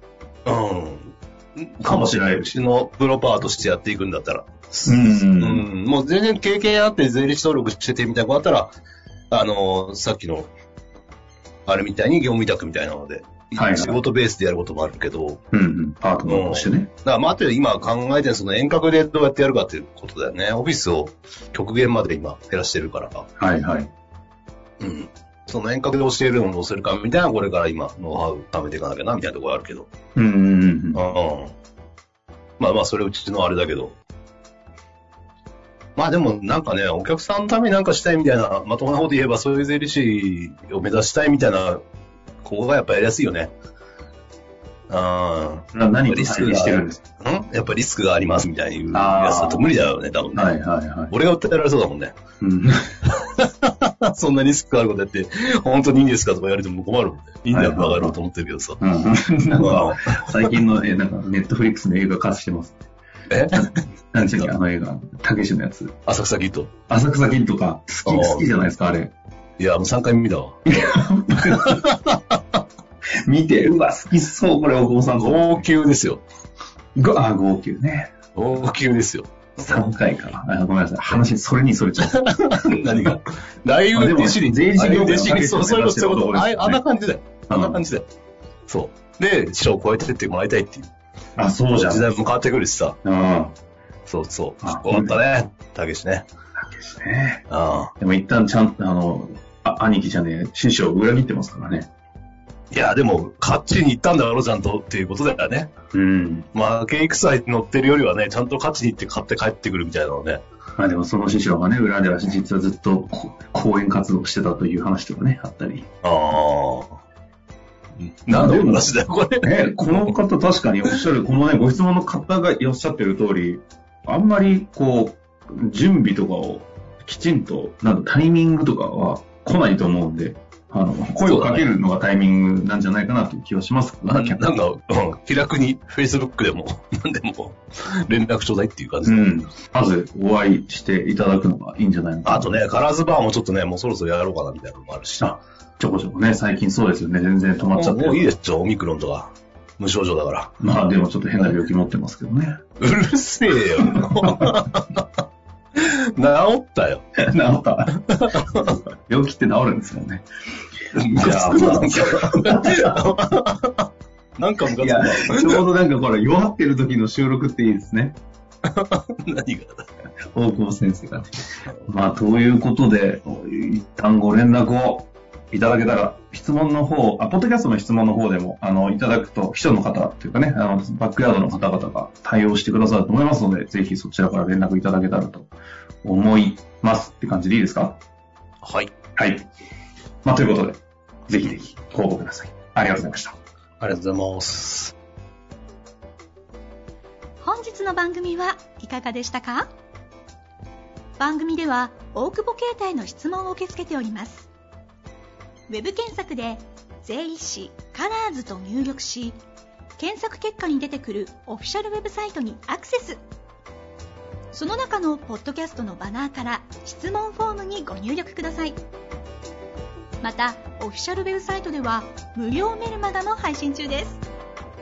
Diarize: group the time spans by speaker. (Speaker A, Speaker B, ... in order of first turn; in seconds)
Speaker A: 0.5-8.7, 9.3-10.5, 11.7-15.4, 16.3-23.3, 24.8-29.9, 30.9-31.5, 32.6-34.0, 36.0-41.8, 42.4-43.5, 44.9-50.6, 51.1-52.1, 53.1-58.8, 59.6-60.5, 63.3-63.8, 66.0-66.7, 68.0-68.5, 69.6-72.4, 75.2-76.2, 78.3-79.8, 82.0-88.0, 88.7-90.9, 91.7-93.0, 94.0-96.2, 97.5-97.9, 102.7-105.7, 106.5-110.4, 116.0-117.0, 118.2-120.1, 131.2-131.7, 134.1-139.3, 142.2-145.3, 147.6-150.5, 152.8-155.1, 155.8-157.1, 158.1-158.8, 160.9-165.6, 168.7-169.8, 188.6-188.9, 193.8-194.9
Speaker B: 1.8-2.6, 4.8-5.6, 13.6-14.0, 15.5-16.9, 23.4-23.9, 30.1-31.0, 45.7-47.0, 48.9-49.7, 50.3-51.1, 52.4-52.8, 57.5-58.2, 58.8-62.8, 63.5-65.9, 66.9-69.1, 70.7-71.8, 73.2-75.6, 77.0-78.1, 79.6-83.2, 83.9-86.8, 87.5-87.8, 91.4-92.1, 93.0-93.5, 94.6-95.2, 96.6-97.4, 98.0-101.9, 105.9-106.5, 110.8-115.9, 118.3-134.4, 139.0-142.6, 145.2-148.2, 150.6-152.6, 153.8-154.5, 157.2-158.0, 158.6-160.2, 161.1-162.9, 164.8-168.2, 170.3-171.3, 171.8-185.5, 186.0-188.0, 189.2-189.5, 190.2-193.3
Speaker C: 197.4-199.7, 201.2-204.5, 205.7-209.4, 210.0-213.2, 214.5-218.8, 220.2-224.2